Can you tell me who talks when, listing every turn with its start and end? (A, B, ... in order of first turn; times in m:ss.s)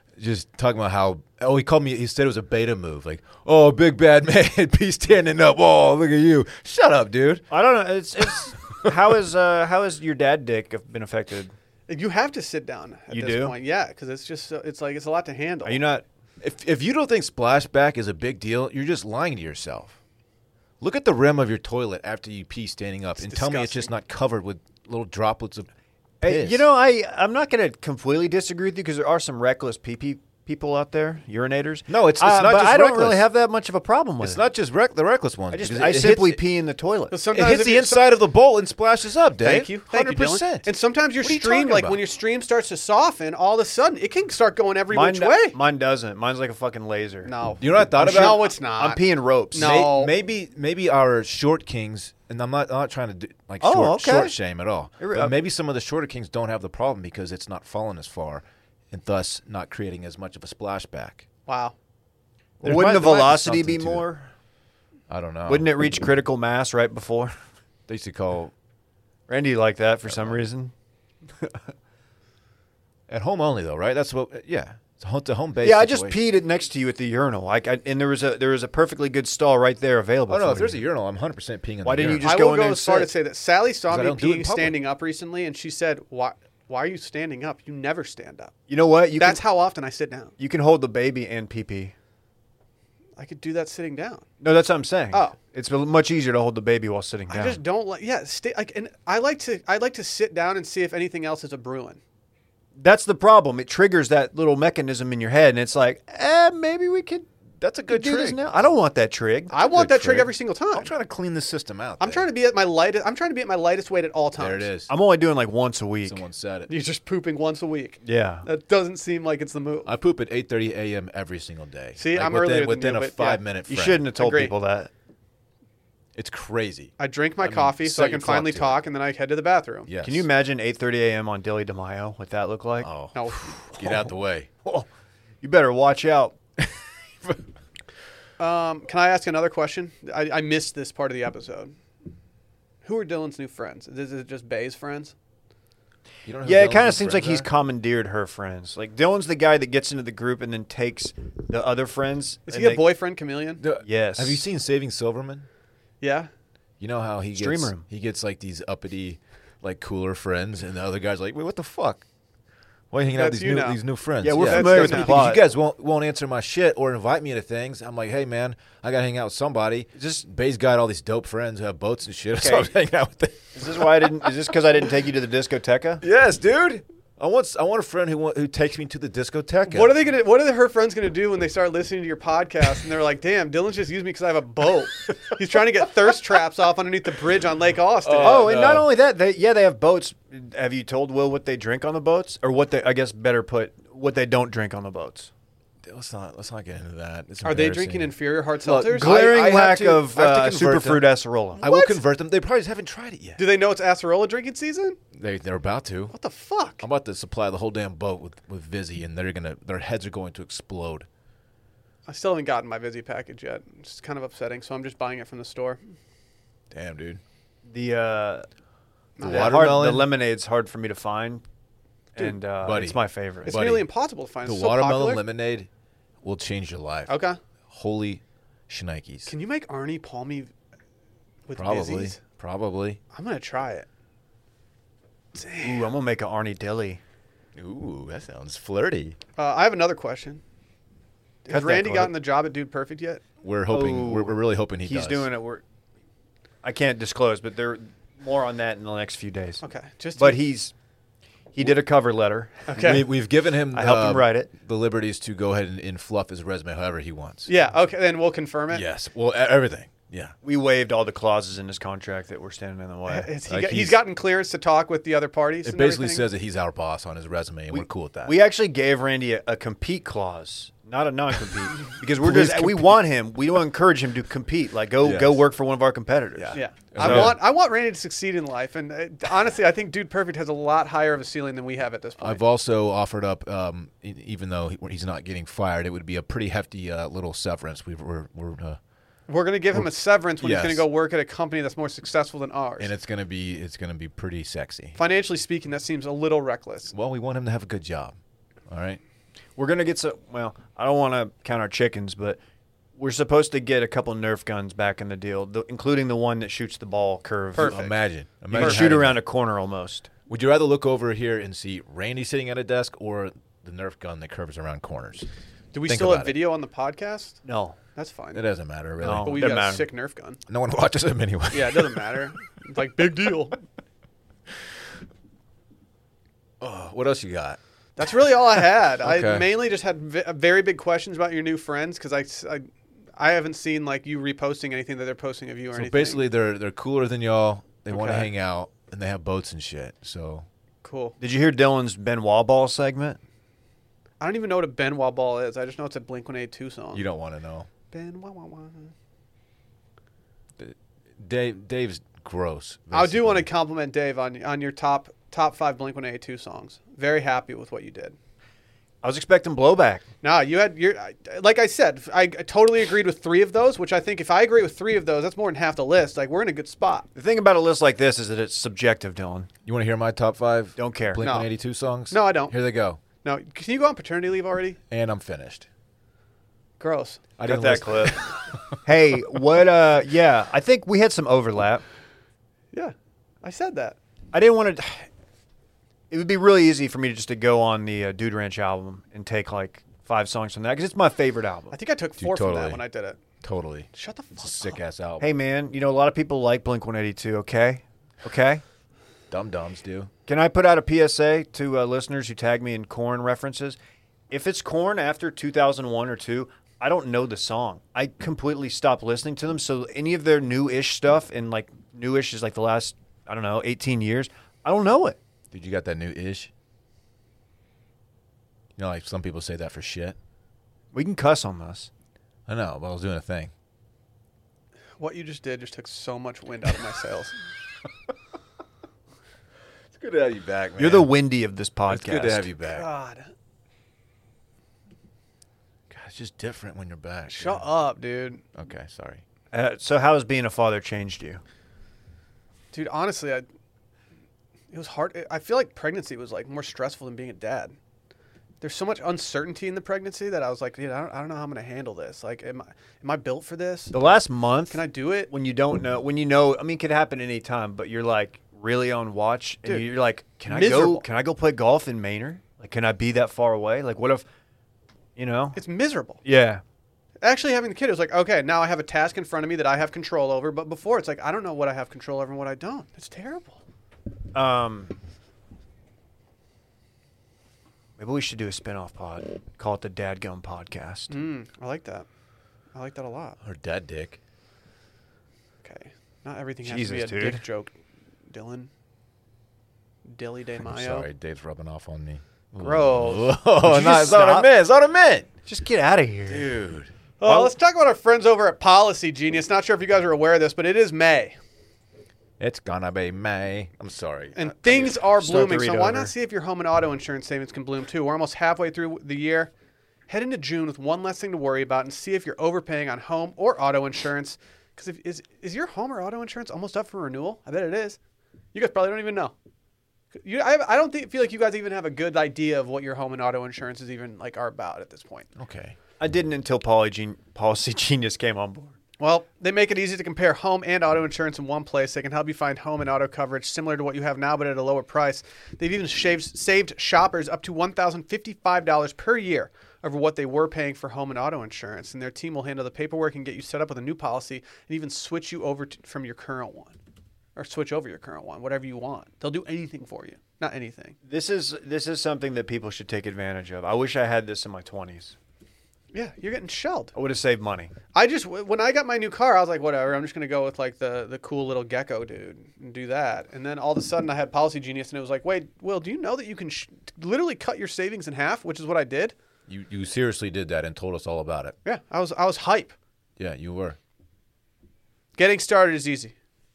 0:00.2-0:07.5 A
0:07.5-0:11.5 B
0:11.9-0:15.8 C
0:13.1-0:13.5 B
0:15.6-0:16.0 B
0:16.4-0:20.0 A
0:20.8-0:25.7 A
0:23.2-0:23.9 C
0:26.2-0:26.6 A
0:26.2-0:34.4 B
0:31.9-0:33.2 A
0:34.2-0:36.4 A
0:35.5-0:37.1 B
0:37.1-0:38.1 C
0:37.3-0:40.6 A
0:39.4-0:45.6 C
0:41.2-0:42.0 A
0:44.9-0:47.3 B
0:47.2-0:49.0 C
0:47.6-0:48.4 A
0:48.0-0:49.7 B
0:49.5-0:50.1 C
0:49.6-1:01.2 A
0:53.6-0:54.3 B
0:55.0-0:55.4 B
1:01.5-1:01.7 C
1:02.6-1:04.3 B
1:02.6-1:04.1 A
1:05.1-1:05.7 A
1:05.5-1:07.4 B
1:07.9-1:08.5 A
1:09.3-1:10.7 B
1:13.1-1:16.2 A
1:15.6-1:20.8 B
1:20.3-1:22.3 A
1:21.8-1:23.1 B
1:22.2-1:28.5 C
1:23.9-1:24.8 A
1:28.7-1:29.4 B
1:29.2-1:30.3 C
1:30.4-1:31.9 B
1:33.2-1:34.2 C
1:34.4-1:37.6 B
1:37.3-1:42.0 C
1:42.8-1:47.3 B
1:47.6-1:48.4 A
1:47.9-1:49.5 B
1:49.5-1:50.9 C
1:49.6-1:52.3 A
1:52.0-1:54.7 C
1:54.4-1:54.9 A
1:54.9-1:56.2 B
1:56.0-1:56.7 A
1:56.7-1:59.9 C
1:58.0-1:58.5 B
1:59.8-2:04.1 A
2:02.0-2:03.4 C
2:03.7-2:04.9 B
2:04.1-2:04.5 C
2:06.2-2:08.8 A
2:07.0-2:09.9 C
2:09.9-2:10.3 A
2:10.0-2:12.9 B
2:12.8-2:14.5 A
2:13.1-2:13.6 C
2:15.4-2:16.4 B
2:18.4-2:21.7 C
2:22.8-2:25.1 C
2:26.2-2:27.5 A
2:26.4-2:32.8 B
2:32.5-2:33.6 C
2:33.6-2:35.4 A
2:33.8-2:34.4 B
2:36.0-2:36.3 C
2:36.8-2:42.0 A
2:37.3-2:37.8 B
2:42.9-2:54.1 A
2:43.1-2:43.8 C
2:44.2-2:45.4 B
2:44.3-2:45.2 C
2:50.0-2:50.2 B
2:52.4-2:52.7 B
2:53.5-2:56.0 B
2:56.0-3:00.0 A
2:59.7-3:08.5 C
3:08.0-3:08.9 A
3:08.2-3:15.3 B
3:15.8-3:23.4 A
3:17.4-3:19.2 C
3:18.9-3:21.6 B
3:21.6-3:22.0 C
3:23.4-3:25.0 C
3:25.1-3:26.1 A
3:26.1-3:26.8 C
3:26.8-3:31.1 A
3:32.0-3:35.8 C
3:36.7-3:37.2 A
3:37.6-3:38.5 B
3:39.2-3:39.6 C
3:39.2-3:40.1 A
3:39.2-3:41.4 B
3:42.1-3:43.6 B
3:42.6-3:43.9 A
3:43.4-3:45.2 C
3:44.4-3:45.7 A
3:46.2-3:47.2 A
3:47.1-3:47.4 C
3:47.7-3:49.3 A
3:49.3-3:50.5 C
3:51.5-3:52.2 C
3:51.6-3:53.0 A
3:53.1-3:53.9 C
3:55.3-3:55.9 C
3:55.6-3:57.0 B
3:57.6-3:59.2 A
3:59.4-4:00.4 C
4:01.4-4:03.2 C
4:01.5-4:02.1 B
4:03.4-4:05.3 A
4:03.7-4:05.6 B
4:06.6-4:09.6 B
4:09.6-4:10.4 C
4:10.2-4:10.7 B
4:11.5-4:13.0 B
4:12.7-4:13.0 C
4:12.8-4:17.5 A
4:13.7-4:14.5 B
4:17.4-4:18.8 C
4:18.7-4:20.3 A
4:20.4-4:23.3 B
4:23.1-4:26.2 C
4:23.5-4:24.0 A
4:25.6-4:28.3 A
4:27.7-4:37.4 B
4:32.2-4:33.0 A
4:35.0-4:35.4 A
4:36.4-4:37.4 A
4:36.5-4:42.4 C
4:42.2-4:48.8 A
4:49.3-4:52.9 C
4:49.7-4:50.8 A
4:52.8-4:55.0 A
4:55.0-4:56.9 C
4:56.9-4:58.2 A
4:58.7-4:59.0 A
4:59.6-5:02.4 B
5:03.0-5:07.7 B
5:07.5-5:08.0 C
5:07.6-5:09.2 A
5:08.5-5:10.1 B
5:08.5-5:08.9 C
5:10.3-5:15.3 A
5:15.7-5:17.4 C
5:15.8-5:16.3 A
5:17.4-5:17.8 B
5:17.9-5:18.4 C
5:18.3-5:19.4 A
5:19.0-5:19.9 B
5:19.2-5:20.4 C
5:20.5-5:22.2 A
5:21.5-5:23.6 C
5:26.6-5:27.6 A
5:28.0-5:36.2 C
5:29.0-5:29.5 A
5:35.7-5:40.5 A
5:37.9-5:38.3 C
5:40.8-5:41.2 C
5:41.2-5:43.2 B
5:44.2-5:47.0 C
5:46.9-5:47.7 A
5:47.9-5:48.9 C
5:50.6-5:53.5 A
5:52.9-5:58.2 C
5:59.0-6:00.0 B
6:00.2-6:07.1 C
6:07.1-6:09.5 B
6:09.6-6:13.0 A
6:10.8-6:11.2 B
6:11.2-6:11.5 C
6:12.1-6:12.5 C
6:13.2-6:14.8 C
6:14.9-6:15.7 A
6:16.8-6:17.3 C
6:17.4-6:18.2 A
6:17.4-6:18.2 B
6:18.8-6:21.8 B
6:22.7-6:24.0 C
6:24.3-6:25.1 B
6:26.1-6:31.8 B
6:31.7-6:33.2 C
6:32.2-6:32.8 A
6:33.4-6:35.3 A
6:33.9-6:34.8 C
6:35.2-6:38.6 B
6:39.3-6:40.1 A
6:40.3-6:43.8 B
6:44.3-6:55.2 B
6:55.5-6:56.5 A
6:58.8-7:00.2 A
7:00.9-7:01.9 B
7:02.5-7:03.5 A
7:05.0-7:07.4 C
7:09.9-7:11.1 A
7:10.8-7:12.5 B
7:11.9-7:12.8 A
7:12.6-7:13.3 C
7:15.9-7:17.6 A
7:17.3-7:18.4 C
7:18.5-7:19.2 A
7:19.5-7:21.4 B
7:22.7-7:23.4 C
7:24.7-7:27.8 C
7:28.6-7:34.0 C
7:33.9-7:44.2 B
7:34.7-7:35.3 C
7:40.5-7:41.0 C
7:45.2-7:45.6 B
7:45.6-7:46.2 C
7:46.2-7:46.6 B
7:47.2-7:53.6 C
7:54.3-7:54.9 B
7:58.0-8:01.2 B
8:01.1-8:02.0 C
8:02.7-8:03.4 C
8:03.4-8:04.2 A
8:05.6-8:07.7 C
8:06.6-8:07.4 B
8:08.3-8:08.7 C
8:10.0-8:11.1 C
8:10.6-8:15.3 A
8:12.6-8:13.3 C
8:13.6-8:14.5 B
8:15.4-8:16.5 B
8:16.3-8:16.9 A
8:17.2-8:21.4 C
8:17.2-8:17.5 B
8:22.4-8:24.9 A
8:24.4-8:29.5 C
8:24.7-8:26.1 B
8:30.1-8:38.0 C
8:38.5-8:39.3 C
8:40.1-8:45.3 C
8:45.4-8:45.8 A
8:46.0-8:48.7 B
8:49.0-9:06.8 C
9:07.4-9:11.0 C
9:11.0-9:15.2 B
9:15.9-9:16.9 C
9:16.9-9:17.7 B
9:17.9-9:29.1 C
9:29.5-9:31.5 A
9:31.6-9:32.7 C
9:33.2-9:33.8 A
9:35.2-9:36.1 C